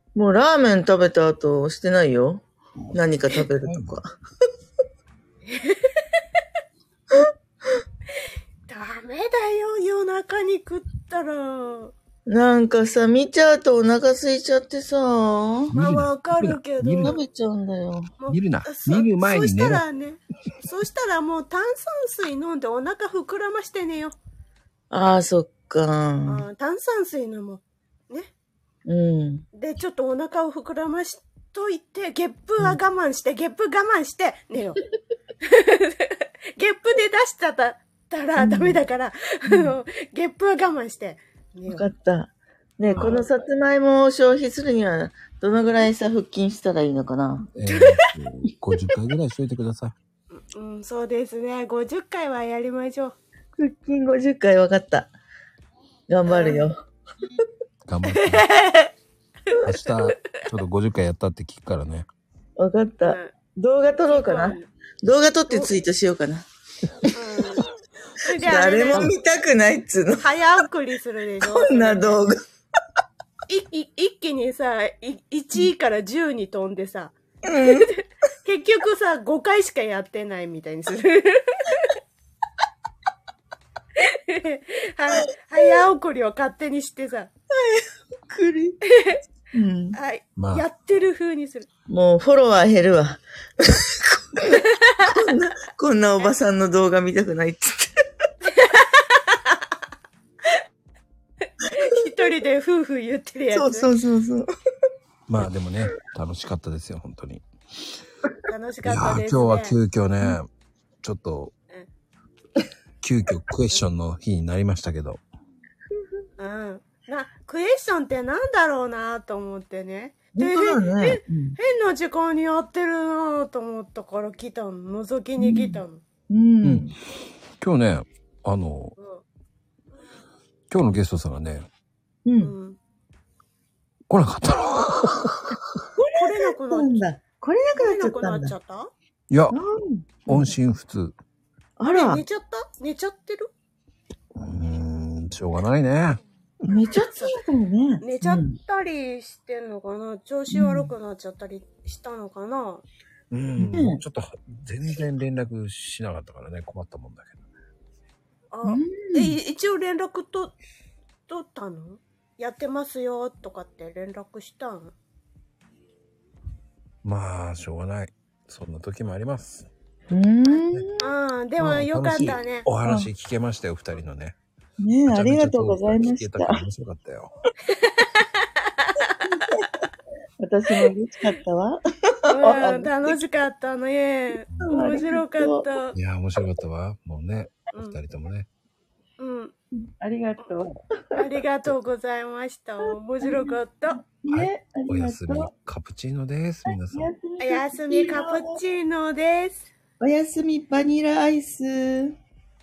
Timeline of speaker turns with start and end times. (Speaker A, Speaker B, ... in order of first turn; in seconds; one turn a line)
Speaker A: 0.1-4.1
Speaker B: 3.6-4.0
Speaker C: 5.5-6.0
Speaker C: 8.7-11.9
Speaker A: 12.3-15.8
Speaker B: 15.7-17.2
Speaker C: 15.7-17.2
Speaker A: 17.0-18.1
Speaker C: 18.2-24.2
Speaker B: 18.2-19.8
Speaker A: 24.9-26.5
Speaker C: 26.3-28.3
Speaker A: 28.9-29.5
Speaker C: 29.5-34.8
Speaker C: 35.4-41.9
Speaker A: 38.4-38.8
Speaker A: 41.7-47.5
Speaker C: 42.8-43.3
Speaker B: 42.9-43.2
Speaker B: 47.5-49.9
Speaker C: 50.3-53.2
Speaker A: 53.6-55.1
Speaker A: 56.1-56.8
Speaker C: 56.3-56.7
Speaker B: 57.9-58.5
Speaker C: 58.1-58.9
Speaker C: 59.5-60.4
Speaker B: 59.6-62.1
Speaker A: 62.6-66.5
Speaker C: 63.0-63.4
Speaker C: 64.0-64.7
Speaker C: 67.1-67.7
Speaker C: 68.2-69.1
Speaker A: 68.3-70.3
Speaker C: 70.2-72.2
Speaker A: 71.4-72.4
Speaker C: 73.5-82.0
Speaker A: 77.4-77.9
Speaker C: 84.0-87.3
Speaker A: 87.5-88.8
Speaker C: 88.9-89.2
Speaker A: 89.5-90.0
Speaker C: 90.0-91.7
Speaker B: 90.4-90.7
Speaker A: 91.9-98.0
Speaker C: 94.5-95.2
Speaker C: 98.5-99.6
Speaker C: 101.7-103.9
Speaker A: 103.5-104.5
Speaker B: 105.3-107.4
Speaker C: 108.5-109.8
Speaker B: 108.8-110.5
Speaker B: 111.0-111.5
Speaker B: 113.0-115.2
Speaker C: 116.4-126.0
Speaker A: 120.3-121.6
Speaker A: 125.4-127.0
Speaker B: 126.6-126.9
Speaker B: 127.6-128.9
Speaker C: 129.0-129.2
Speaker B: 130.7-131.7
Speaker A: 132.2-132.6
Speaker C: 132.4-132.8
Speaker B: 134.1-135.6
Speaker A: 136.0-138.6
Speaker C: 136.2-137.0
Speaker C: 137.8-138.9
Speaker B: 139.3-139.6
Speaker A: 139.5-140.5
Speaker B: 140.3-141.1
Speaker A: 141.8-142.2
Speaker C: 141.9-143.5
Speaker B: 144.3-146.8
Speaker A: 146.7-148.6
Speaker C: 147.1-147.4
Speaker C: 148.0-152.8
Speaker A: 150.5-150.9
Speaker B: 153.3-157.4
Speaker A: 153.6-154.0
Speaker C: 158.5-160.5
Speaker A: 158.6-159.4
Speaker C: 161.3-164.9
Speaker B: 167.0-169.7
Speaker A: 170.1-171.1
Speaker C: 170.5-172.7
Speaker B: 171.6-174.4
Speaker A: 172.2-173.1
Speaker A: 174.8-176.6
Speaker B: 175.1-177.3
Speaker C: 177.7-179.5
Speaker A: 179.2-179.7
Speaker A: 180.4-183.2
Speaker C: 182.3-185.9
Speaker A: 184.6-185.7
Speaker B: 185.9-188.5
Speaker C: 187.7-188.0
Speaker C: 189.2-189.6
Speaker A: 189.7-191.3
Speaker C: 191.2-194.0
Speaker A: 193.2-195.5
Speaker B: 194.3-197.1
Speaker A: 196.9-198.6
Speaker C: 197.4-199.7
Speaker A: 200.0-202.2